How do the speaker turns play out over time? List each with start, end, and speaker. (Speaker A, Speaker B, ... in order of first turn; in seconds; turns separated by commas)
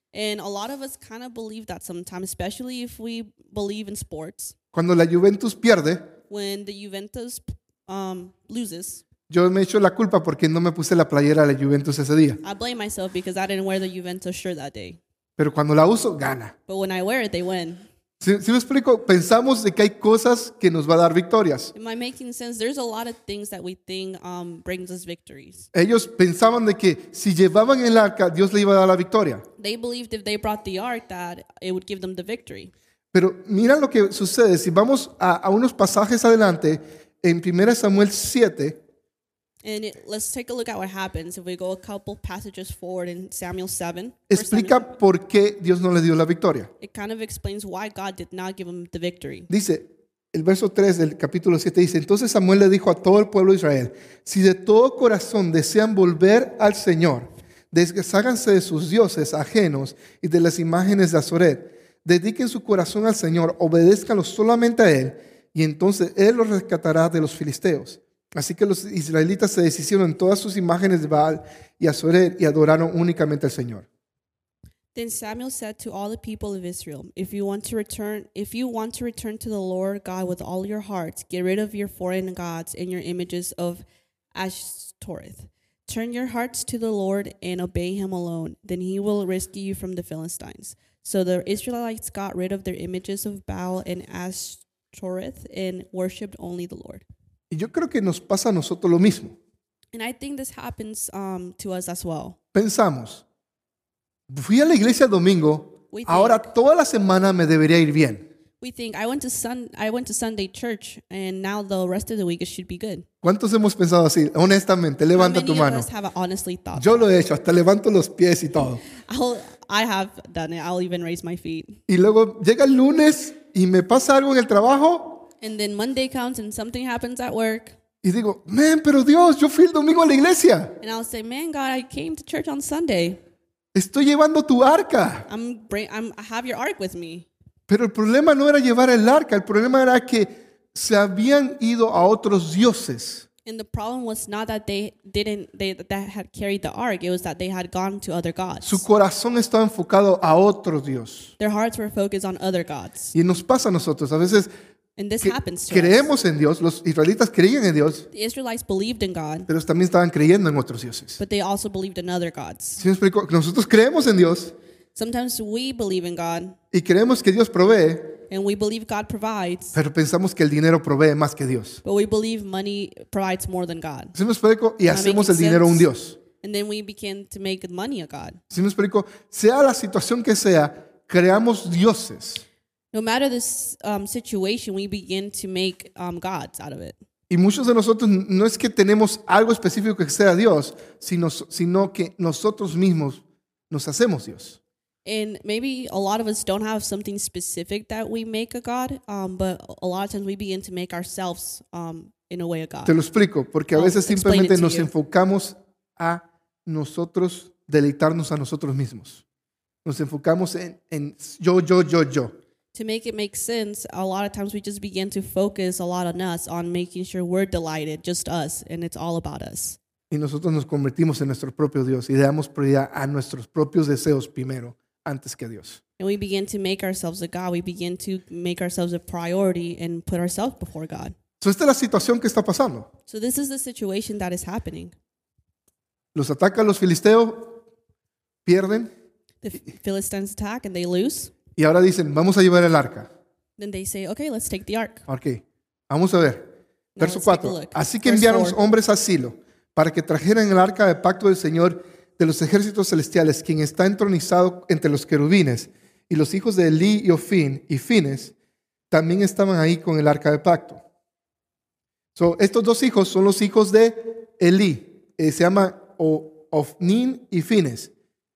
Speaker A: 0.1-4.5, Speaker B: 4.7-6.1, Speaker A: 6.3-9.0, Speaker B: 9.3-12.4, Speaker A: 12.4-15.0, Speaker B: 15.4-16.5, Speaker A: 16.7-17.8, Speaker B: 18.2-21.7, Speaker A: 21.7-25.7, Speaker B: 25.7-29.4, Speaker A: 29.6-32.7, Speaker B: 33.1-38.8, Speaker A: 39.6-44.9, Speaker B: 44.3-46.7, Speaker A: 46.8-49.5, Speaker B: 49.5-73.8, Speaker A: 74.9-83.8, Speaker A: 84.3-97.0, Speaker B: 97.5-99.3, Speaker A: 99.9-102.4, Speaker B: 102.5-103.2, Speaker B: 104.3-108.2, Speaker A: 105.9-106.5, Speaker A: 108.6-113.0, Speaker B: 113.2-115.9, Speaker A: 115.1-117.1, Speaker B: 116.8-118.8, Speaker A: 118.9-121.8, Speaker B: 121.9-125.2, Speaker A: 125.4-127.8, Speaker B: 128.0-130.7, Speaker A: 130.8-133.2, Speaker B: 133.7-135.3, Speaker A: 135.3-137.3, Speaker B: 137.7-143.2, Speaker A: 143.4-148.8, Speaker B: 148.6-151.3, Speaker A: 151.4-153.1, Speaker B: 153.1-154.5, Speaker A: 155.0-156.1, Speaker B: 155.2-158.1, Speaker A: 158.1-159.5, Speaker B: 159.5-161.2, Speaker A: 161.2-162.8, Speaker B: 162.8-164.5, Speaker A: 164.9-166.6, Speaker B: 166.7-168.2, Speaker A: 168.3-169.8, Speaker B: 169.7-171.8, Speaker A: 171.8-174.2, Speaker B: 174.1-176.2, Speaker A: 174.9-175.9, Speaker A: 176.4-178.4, Speaker B: 178.5-182.4, Speaker A: 182.9-187.0, Speaker B: 187.3-194.6, Speaker A: 195.0-203.0, Speaker B: 202.8-209.2, Speaker A: 203.7-204.9, Speaker B: 209.8-212.3, Speaker A: 212.7-219.8, Speaker B: 220.1-225.8, Speaker A: 226.0-231.1, Speaker B: 231.4-232.9, Speaker A: 233.1-234.9, Speaker B: 236.1-237.6, Speaker B: 238.4-238.9, Speaker A: 239.4-241.3, Speaker B: 241.6-243.1, Speaker A: 243.6-245.1, Speaker B: 245.1-258.3, Speaker A: 246.9-248.6, Speaker B: 258.9-260.8, Speaker B: 262.1-267.9